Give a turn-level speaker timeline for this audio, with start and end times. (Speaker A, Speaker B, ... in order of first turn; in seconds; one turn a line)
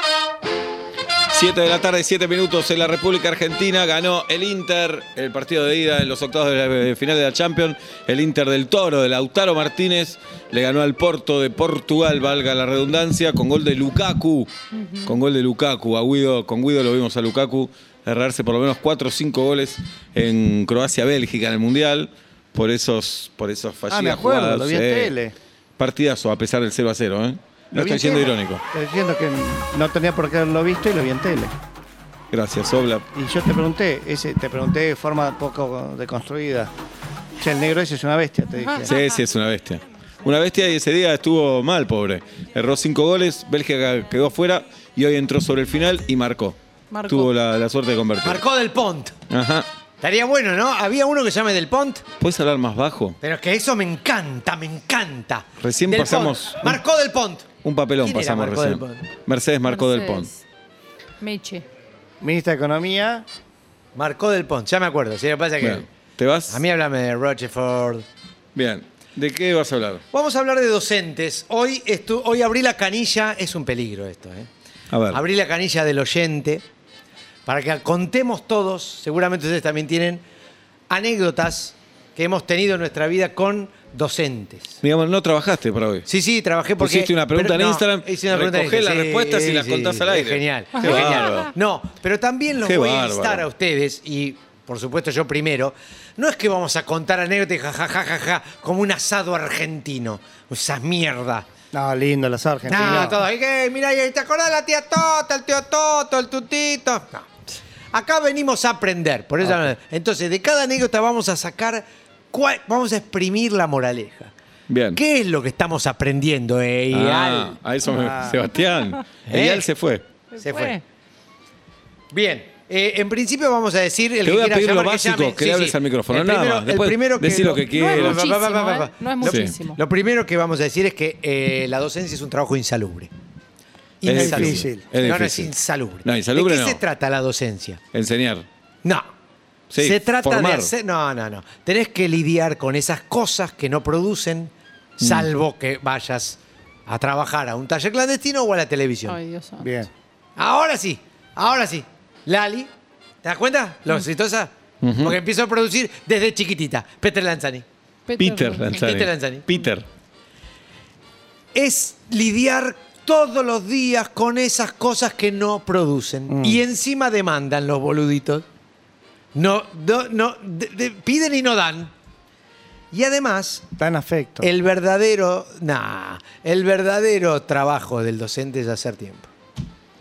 Speaker A: 1.3-14.5
Speaker B: 14.8-15.2
Speaker A: 15.1-25.1
Speaker C: 23.9-25.3
Speaker A: 25.8-28.6
Speaker C: 27.7-31.5
Speaker A: 32.3-33.0
Speaker C: 33.1-36.7
Speaker C: 37.4-38.9
Speaker B: 38.6-39.0
Speaker A: 38.8-48.4
Speaker B: 46.9-47.3
Speaker D: 48.2-49.2
Speaker A: 49.3-49.7
Speaker D: 50.0-52.0
Speaker A: 52.2-53.2
Speaker D: 53.2-57.5
Speaker A: 55.6-56.8
Speaker A: 57.6-60.3
Speaker D: 58.0-59.1
Speaker B: 59.7-60.3
Speaker B: 61.2-61.6
Speaker C: 62.2-63.2
Speaker D: 63.9-65.8
Speaker A: 65.6-66.6
Speaker D: 66.5-68.0
Speaker A: 68.5-70.0
Speaker D: 70.1-74.5
Speaker A: 74.9-75.2
Speaker D: 75.1-76.6
Speaker D: 77.5-80.2
Speaker D: 80.9-84.8
Speaker A: 84.8-86.1
Speaker D: 86.0-101.5
Speaker A: 86.8-91.5
Speaker B: 90.8-91.5
Speaker A: 92.6-93.5
Speaker C: 101.7-103.2
Speaker D: 102.7-107.3
Speaker D: 107.9-114.3
Speaker A: 114.7-115.0
Speaker D: 114.9-117.5
Speaker A: 116.9-120.0
Speaker C: 117.9-118.4
Speaker D: 119.3-119.7
Speaker B: 120.3-120.8
Speaker D: 120.4-120.8
Speaker D: 122.1-133.1
Speaker A: 124.2-128.2
Speaker B: 127.7-129.8
Speaker A: 129.2-129.5
Speaker D: 134.0-137.8
Speaker A: 134.0-135.5
Speaker C: 134.1-134.8
Speaker A: 136.0-136.8
Speaker A: 137.9-138.4
Speaker A: 139.7-140.7
Speaker D: 139.8-149.2
Speaker A: 145.0-145.3
Speaker B: 149.1-149.7
Speaker C: 149.6-149.9
Speaker D: 150.3-152.7
Speaker D: 153.2-157.6
Speaker A: 154.8-155.2
Speaker B: 158.1-158.8
Speaker A: 158.2-159.8
Speaker D: 158.8-159.5
Speaker D: 161.5-168.4
Speaker C: 166.3-166.6
Speaker D: 169.3-171.9
Speaker D: 172.9-173.7
Speaker C: 173.8-174.5
Speaker D: 174.4-179.3